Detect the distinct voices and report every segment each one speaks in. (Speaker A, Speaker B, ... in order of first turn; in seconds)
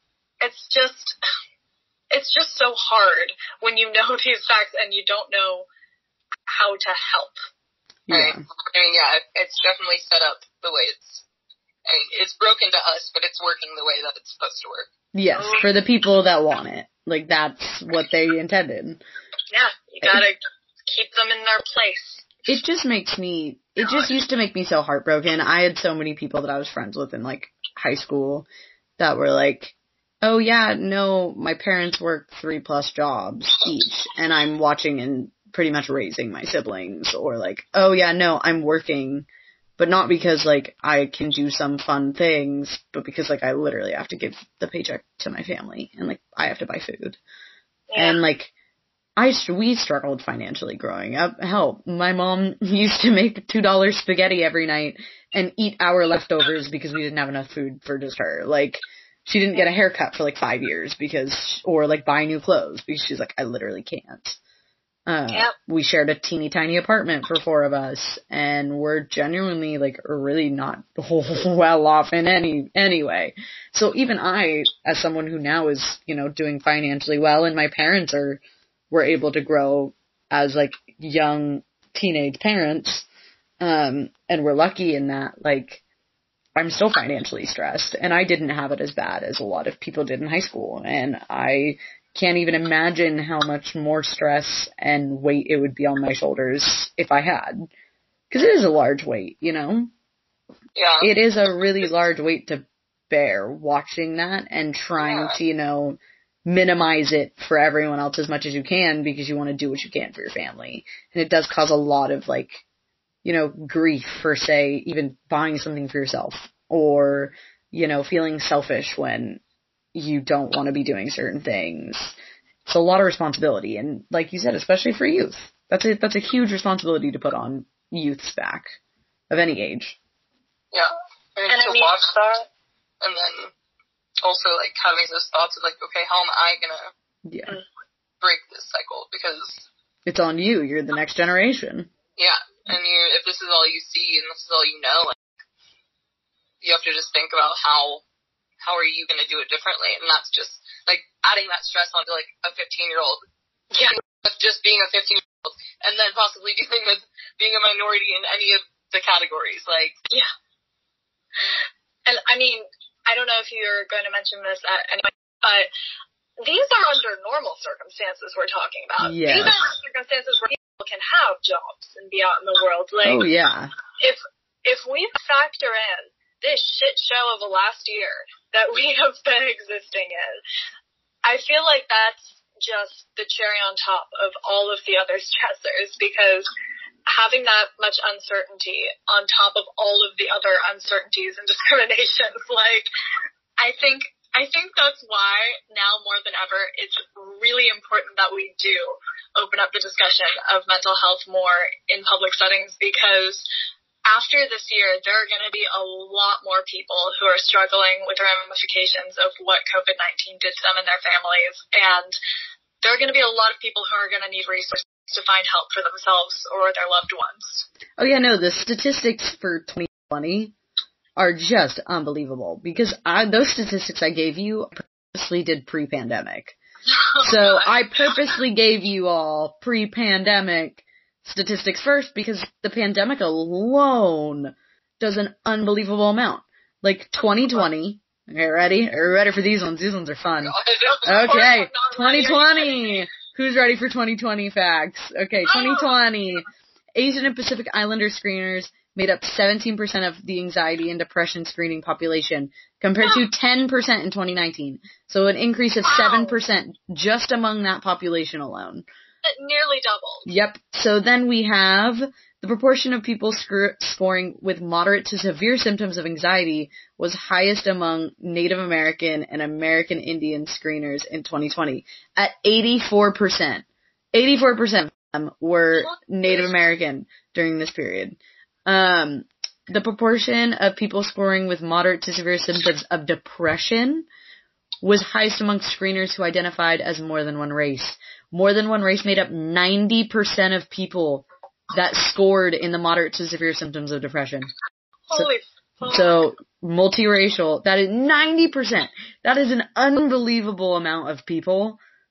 Speaker A: 0.4-1.2, 2.1-5.7, 6.5-7.3, 15.3-15.7, 19.5-22.3, 47.9-48.2, 131.5-132.4, 153.7-154.0, 162.1-165.7, 166.4-173.2, 174.0-180.4, 181.2-186.5, 187.1-192.9, 193.6-203.5, 204.1-212.2, 212.8-217.7, 226.9-228.3, 240.8-243.0, 245.5-245.9, 255.8-256.4, 259.2-260.3, 275.9-276.5, 295.1-296.2
Speaker B: 8.1-8.4, 15.1-19.0, 22.5-28.4, 29.0-39.2, 39.8-47.2, 48.0-48.5, 49.2-64.4, 65.1-83.1, 83.6-85.8, 86.5-97.7, 98.3-99.9, 101.0-112.6, 113.2-119.4, 119.9-128.8, 129.3-130.0, 137.2-137.6, 140.1-141.9, 169.0-169.7, 173.0-173.7, 218.0-220.5, 221.2-226.6, 227.2-258.8, 260.2-284.1, 284.8-294.5, 295.8-301.8
Speaker C: 8.1-11.2, 11.8-14.9, 100.7-101.1, 105.0-105.4, 130.7-132.2, 133.0-133.5, 134.2-136.9, 138.2-139.7, 142.2-145.2, 146.6-148.0, 148.6-153.2, 153.9-160.0, 240.4-241.3